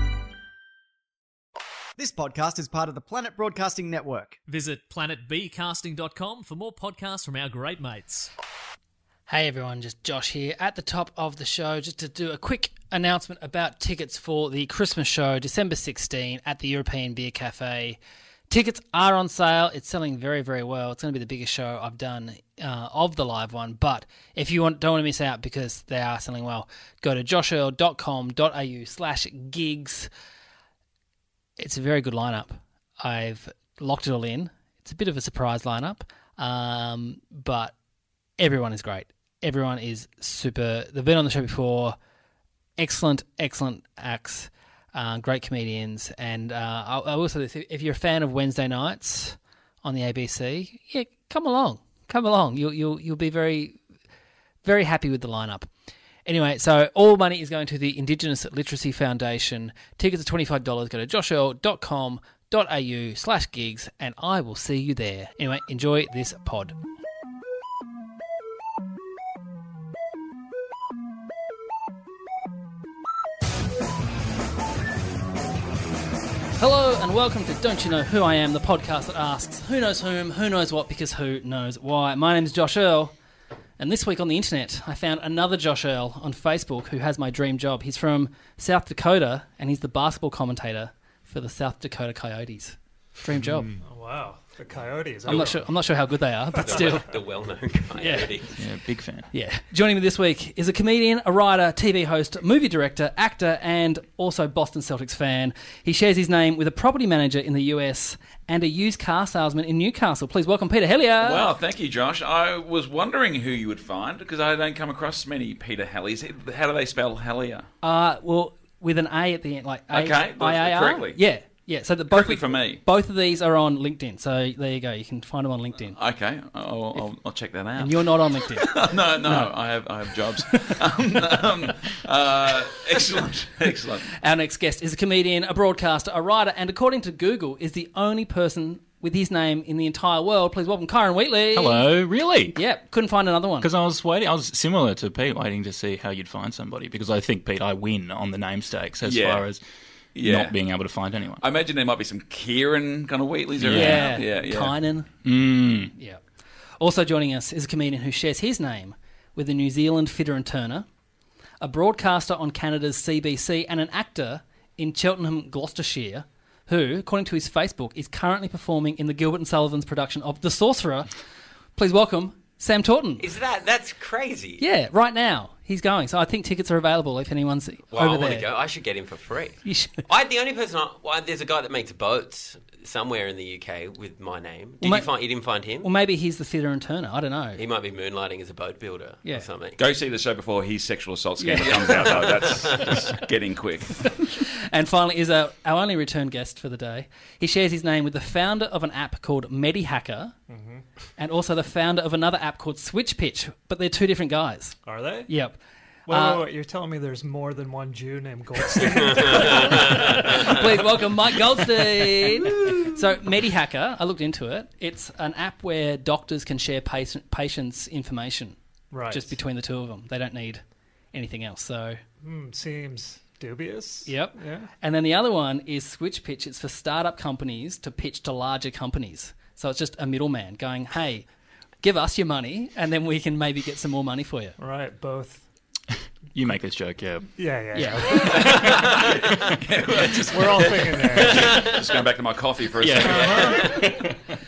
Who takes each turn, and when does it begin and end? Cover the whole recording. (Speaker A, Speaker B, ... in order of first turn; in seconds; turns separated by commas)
Speaker A: 2.0-4.4, Speaker B: 4.5-8.3, Speaker C: 9.3-18.0, Speaker C: 18.5-30.1, Speaker C: 31.6-37.7, Speaker C: 38.4-42.0, Speaker C: 42.8-53.8, Speaker C: 54.6-55.7, Speaker C: 56.2-66.8, Speaker C: 76.6-83.1, Speaker C: 83.8-93.7, Speaker D: 93.8-95.7, Speaker C: 95.3-97.1, Speaker E: 96.6-98.5, Speaker C: 98.0-98.3, Speaker F: 98.6-99.3, Speaker C: 99.3-111.5, Speaker G: 111.2-117.7, Speaker C: 117.8-126.0, Speaker G: 119.9-121.2, Speaker G: 122.1-122.8, Speaker G: 125.9-134.1, Speaker C: 127.8-128.8, Speaker C: 134.2-141.8, Speaker F: 141.5-142.6, Speaker C: 142.5-143.7, Speaker F: 143.6-149.6, Speaker G: 149.0-149.5, Speaker G: 150.1-150.6, Speaker F: 150.2-151.4, Speaker G: 151.4-154.8, Speaker F: 153.6-154.2, Speaker C: 153.7-155.1, Speaker F: 155.2-155.9, Speaker C: 155.9-156.2, Speaker C: 156.8-160.8, Speaker C: 161.6-171.1, Speaker C: 171.8-173.2, Speaker E: 173.2-174.6, Speaker C: 174.6-178.4, Speaker E: 177.9-185.9, Speaker C: 179.6-180.0, Speaker C: 184.8-185.1, Speaker C: 185.8-187.6, Speaker E: 187.6-189.8, Speaker G: 189.8-194.2, Speaker C: 191.4-192.3, Speaker C: 194.3-200.3, Speaker D: 200.5-200.8, Speaker C: 201.2-205.6, Speaker D: 204.8-205.3, Speaker D: 206.1-210.7, Speaker C: 206.1-206.4, Speaker E: 209.3-210.2, Speaker C: 209.4-218.6, Speaker D: 218.9-219.3, Speaker C: 219.1-220.6, Speaker C: 221.1-222.0, Speaker D: 222.2-224.7, Speaker C: 224.1-231.2, Speaker C: 231.8-234.6, Speaker D: 234.6-235.4, Speaker F: 236.3-237.3, Speaker D: 237.4-238.9, Speaker C: 237.7-238.3, Speaker G: 238.4-243.7, Speaker D: 240.3-241.5, Speaker E: 241.3-241.8, Speaker F: 242.8-244.1, Speaker D: 243.1-243.6, Speaker E: 243.4-243.7